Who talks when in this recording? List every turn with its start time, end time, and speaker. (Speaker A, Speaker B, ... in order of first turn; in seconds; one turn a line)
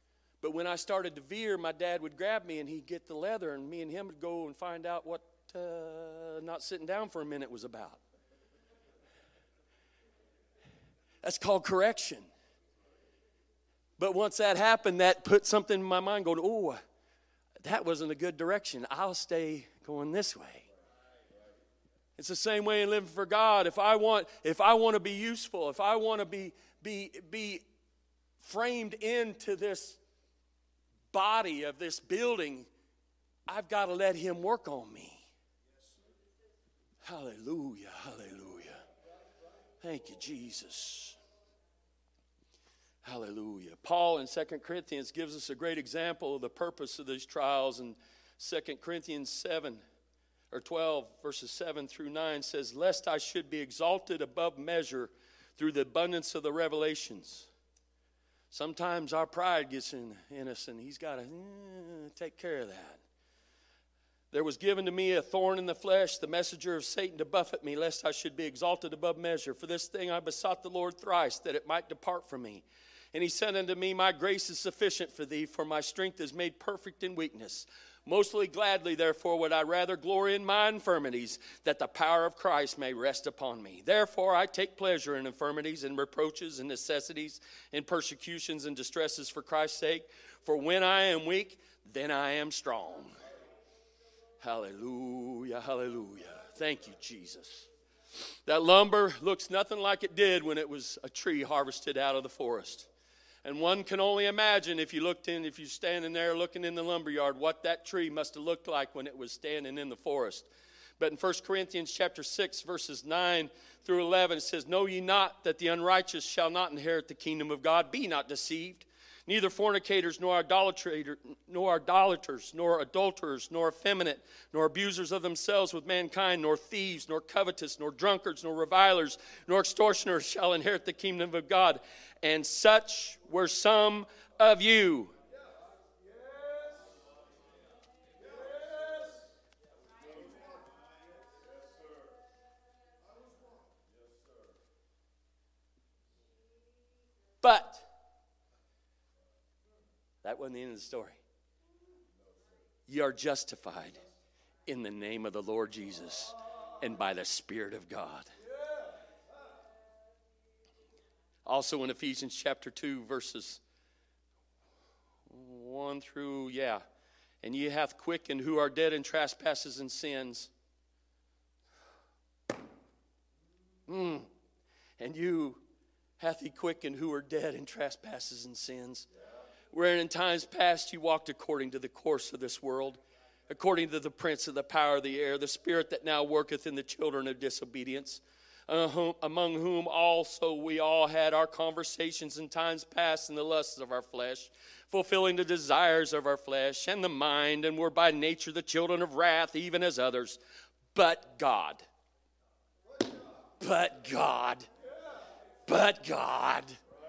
Speaker A: 0.4-8.0
Speaker A: 11.2-12.3
Speaker A: 14.0-16.8
Speaker A: 17.6-20.6
Speaker A: 22.2-27.6
Speaker A: 28.4-30.0
Speaker A: 31.1-32.7
Speaker A: 33.5-35.3
Speaker A: 37.0-38.8
Speaker A: 39.8-41.2
Speaker A: 43.0-49.8
Speaker A: 50.5-57.5
Speaker A: 58.5-63.0
Speaker A: 64.3-93.1
Speaker A: 94.4-97.7
Speaker A: 98.5-102.9
Speaker A: 103.4-135.1
Speaker A: 147.4-147.9
Speaker A: 150.2-151.2
Speaker A: 152.9-154.0
Speaker A: 154.7-158.3
Speaker A: 161.4-163.6
Speaker A: 165.3-166.8
Speaker A: 167.4-170.5
Speaker A: 173.9-174.3
Speaker A: 175.0-175.6
Speaker A: 176.2-179.1
Speaker A: 179.7-200.4
Speaker A: 200.9-201.8
Speaker A: 203.6-204.7
Speaker A: 205.7-206.8